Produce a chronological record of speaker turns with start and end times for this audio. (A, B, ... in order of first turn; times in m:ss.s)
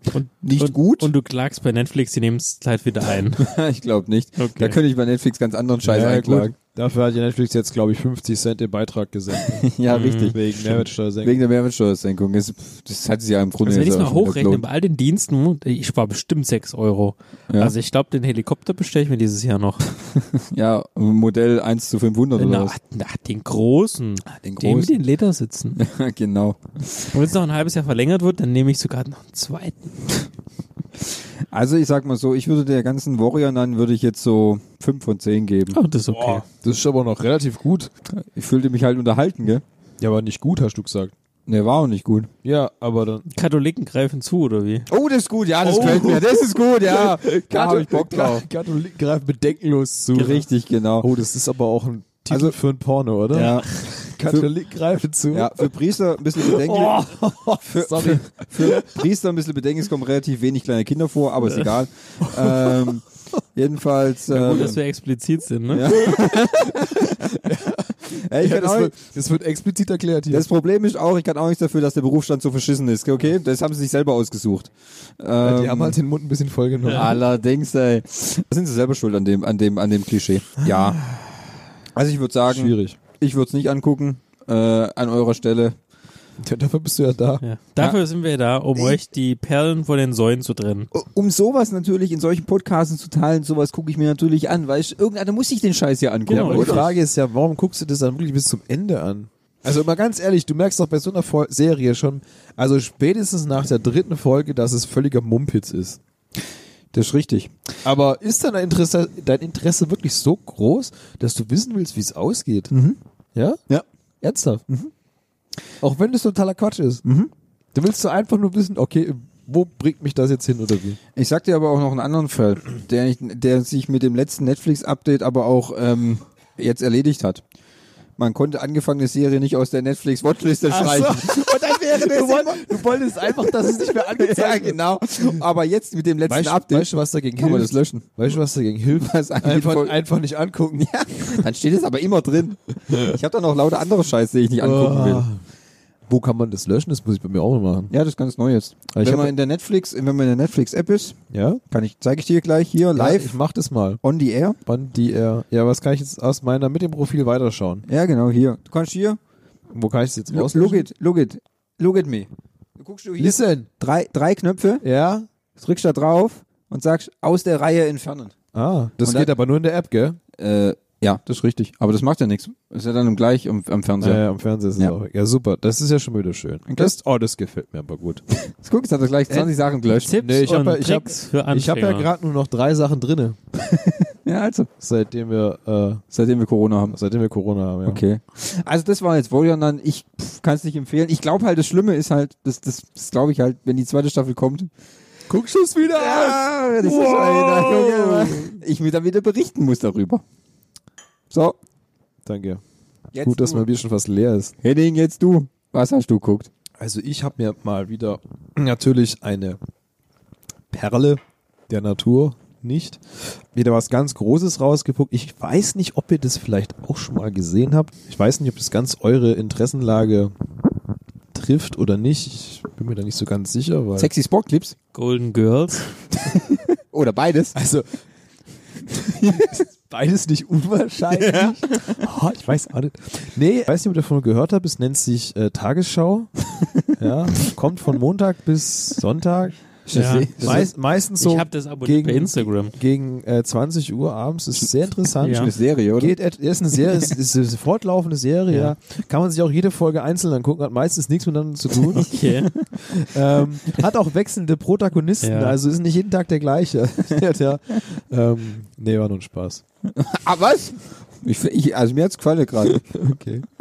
0:00.1-0:03.5 A
0:00.4-0:01.1 B
0:03.4-0:06.6 B
0:04.4-0:04.8 A
0:05.8-0:09.6 C
0:09.5-0:14.6 B
0:09.9-0:10.4 A
0:10.3-0:11.4 C
0:13.6-0:19.9 A
0:20.1-0:22.8 B
0:22.4-0:25.8 A
0:24.3-0:24.9 B
0:25.8-0:27.0 B
0:27.1-0:30.1 A
0:31.5-0:35.8 B
0:35.7-0:36.4 A
0:36.1-0:37.9 C
0:38.1-0:39.6 B
0:40.0-0:41.1 C
0:41.5-0:42.3 B
0:42.4-0:43.3 C
0:43.3-0:44.9 A
0:44.9-0:48.5 B
0:45.6-0:50.4 C
0:50.1-0:51.1 B
0:51.0-0:55.7 C
0:52.3-0:52.6 B
0:53.3-0:53.7 B
0:54.2-0:54.5 B
0:55.3-1:03.0 B
0:56.4-0:59.0 C
1:02.2-1:02.9 C
1:03.6-1:04.8 B
1:04.3-1:05.9 A
1:05.7-1:07.4 B
1:06.3-1:10.5 C
1:08.1-1:08.9 B
1:10.3-1:16.0 B
1:15.4-1:17.2 C
1:16.9-1:21.0 B
1:20.6-1:21.2 C
1:22.0-1:25.8 B
1:22.5-1:23.0 C
1:26.4-1:27.4 C
1:27.4-1:30.9 A
1:30.9-1:36.9 B
1:36.3-1:36.9 A
1:36.3-1:46.0 C
1:46.9-1:47.5 B
1:47.8-1:52.7 C
1:52.7-1:53.0 B
1:53.4-1:53.6 C
1:54.2-1:54.6 C
1:55.8-1:57.0 C
1:57.0-1:57.3 B
1:57.7-2:01.0 C
2:01.1-2:07.4 B
2:08.2-2:12.8 B
2:10.6-2:14.8 C
2:13.3-2:18.4 B
2:16.3-2:21.4 C
2:19.0-2:20.0 B
2:20.8-2:25.2 B
2:24.6-2:25.4 C
2:26.1-2:27.9 C
2:27.9-2:31.2 B
2:28.9-2:29.3 C
2:31.3-2:31.6 C
2:31.7-2:33.4 B
2:33.0-2:34.0 C
2:34.0-2:34.6 B
2:34.6-2:37.9 C
2:37.9-2:39.2 B
2:39.7-2:40.9 C
2:40.3-2:44.8 B
2:43.2-2:43.7 C
2:44.8-2:45.3 C
2:45.6-2:48.4 B
2:48.5-2:50.2 C
2:49.0-2:49.3 B
2:50.4-2:54.2 B
2:54.0-2:58.2 C
2:56.7-2:57.0 B
2:58.5-3:00.1 B
2:59.9-3:02.1 A
3:00.2-3:03.4 C
3:03.6-3:04.7 B
3:04.8-3:06.0 C
3:06.1-3:07.0 B
3:06.9-3:08.0 C
3:07.8-3:14.7 B
3:15.3-3:18.6 C
3:15.9-3:20.2 B
3:21.3-3:21.6 B
3:22.3-3:22.6 C
3:23.1-3:23.6 B
3:23.2-3:24.6 C
3:24.6-3:26.5 B
3:26.8-3:29.6 C
3:30.7-3:33.0 C
3:33.5-3:40.3 C
3:41.3-3:44.1 C
3:44.0-3:44.8 B
3:44.9-3:45.9 A
3:46.5-3:47.6 B
3:47.6-3:47.9 C
3:49.1-3:56.3 C
3:49.2-3:49.6 B
3:51.1-3:52.0 B
3:56.9-3:59.6 C
3:59.9-4:00.7 B
3:59.9-4:02.8 A
4:00.4-4:12.1 C
4:05.2-4:05.5 A
4:05.2-4:06.1 B
4:08.5-4:08.8 A
4:12.0-4:12.6 A
4:12.8-4:19.6 C
4:15.2-4:15.6 A
4:20.0-4:23.1 B
4:22.9-4:23.4 C